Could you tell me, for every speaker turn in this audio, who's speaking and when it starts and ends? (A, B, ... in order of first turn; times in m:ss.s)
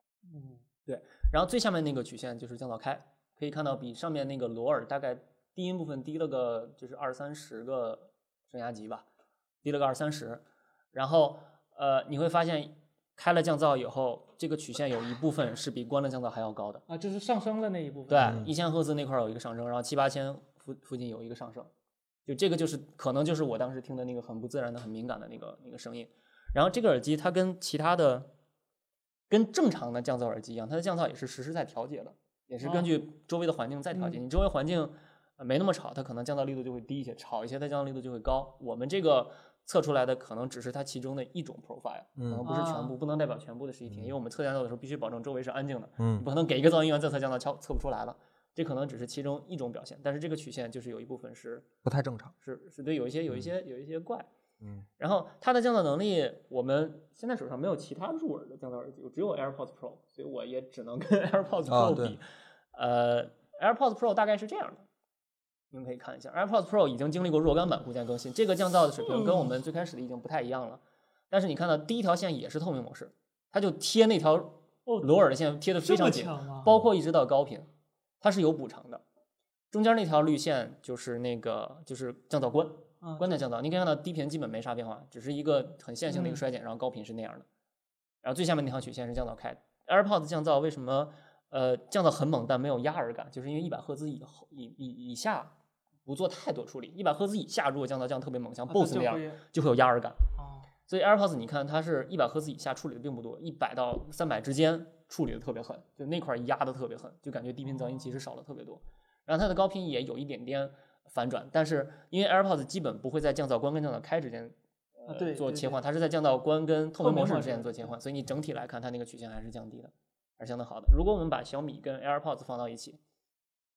0:00.3-0:00.6 A
0:00.8-0:09.0 B
0:09.6-0:10.4 B
0:10.9-0:16.8 B
0:16.9-0:18.4 A
0:18.1-0:21.7 B
0:18.2-0:18.5 C
0:22.2-0:28.3 B
0:29.3-0:51.7 B
0:32.6-0:32.9 A
0:33.9-0:34.2 A
0:42.2-0:42.4 C
0:42.4-0:42.9 A
0:46.0-0:46.2 C
0:51.8-0:52.3 C
0:52.4-0:54.3 B
0:55.0-1:04.8 B
1:01.6-1:02.2 C
1:05.7-1:17.7 B
1:09.0-1:09.5 A
1:14.8-1:15.1 A
1:15.8-1:16.7 A
1:18.2-1:19.0 B
1:19.7-1:27.4 B
1:23.0-1:23.4 A
1:26.1-1:26.4 A
1:28.2-1:35.5 B
1:36.0-1:40.2 B
1:38.7-1:39.4 A
1:40.4-1:40.7 A
1:40.9-2:03.0 B
1:47.7-1:48.2 A
1:55.1-1:55.8 A
1:57.0-1:58.0 A